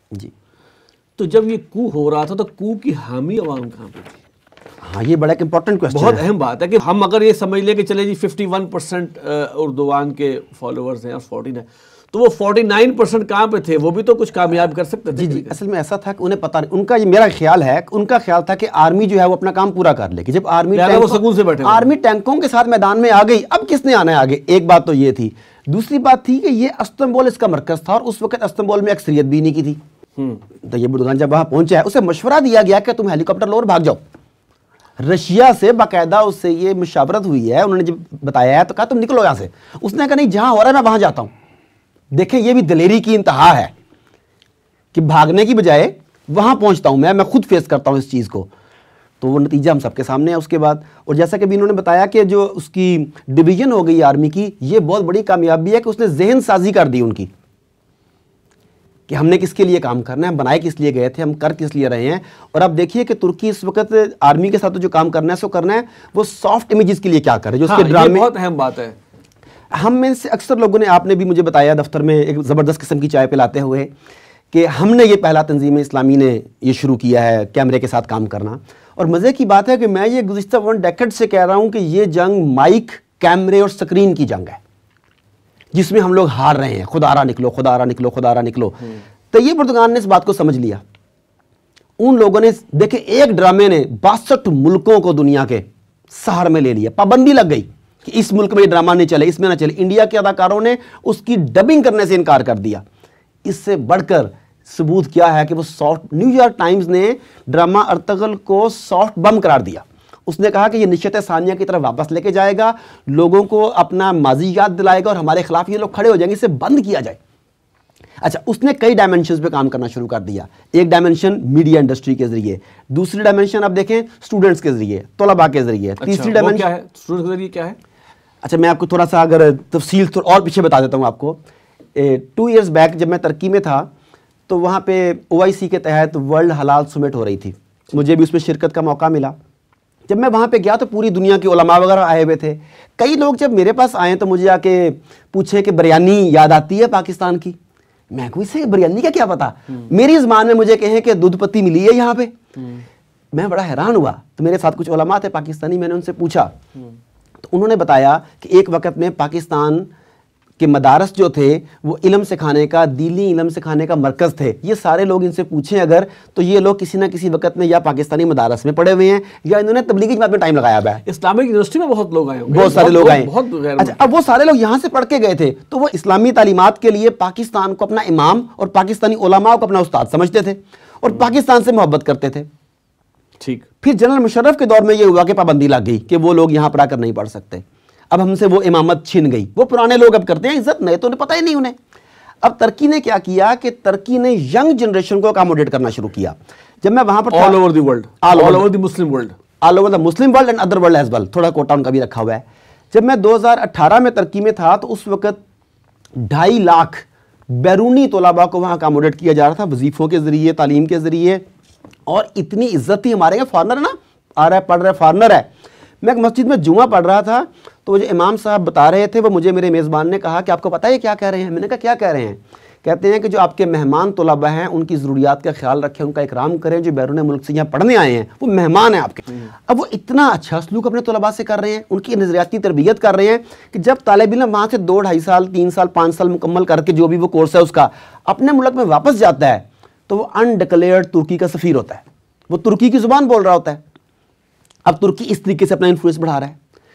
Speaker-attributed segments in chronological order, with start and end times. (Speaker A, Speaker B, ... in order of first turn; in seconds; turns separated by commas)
Speaker A: 1.2-4.2, Speaker B: 4.8-6.2, Speaker A: 5.9-15.5, Speaker B: 15.2-29.8, Speaker A: 20.7-21.9, Speaker B: 30.6-34.0, Speaker B: 35.0-41.3, Speaker B: 42.1-43.7, Speaker B: 44.9-48.5, Speaker B: 49.2-57.3, Speaker B: 59.1-68.3, Speaker A: 67.6-69.0, Speaker B: 69.7-73.9, Speaker B: 74.5-84.6, Speaker B: 85.7-90.8, Speaker B: 92.0-102.8, Speaker B: 103.4-117.2, Speaker B: 118.2-126.7, Speaker A: 126.0-127.8, Speaker B: 128.4-131.4, Speaker B: 131.9-133.9, Speaker B: 134.5-139.3, Speaker B: 140.1-147.6, Speaker B: 148.1-152.3, Speaker B: 153.3-156.5, Speaker B: 157.4-159.9, Speaker B: 160.6-171.0, Speaker A: 171.0-174.1, Speaker B: 172.5-182.5, Speaker A: 183.4-183.7, Speaker B: 183.8-191.8, Speaker B: 192.4-197.6, Speaker A: 197.3-199.3, Speaker B: 198.2-198.7, Speaker B: 199.6-205.4, Speaker B: 206.2-211.4, Speaker B: 212.1-215.5, Speaker B: 216.0-243.8, Speaker B: 244.8-246.6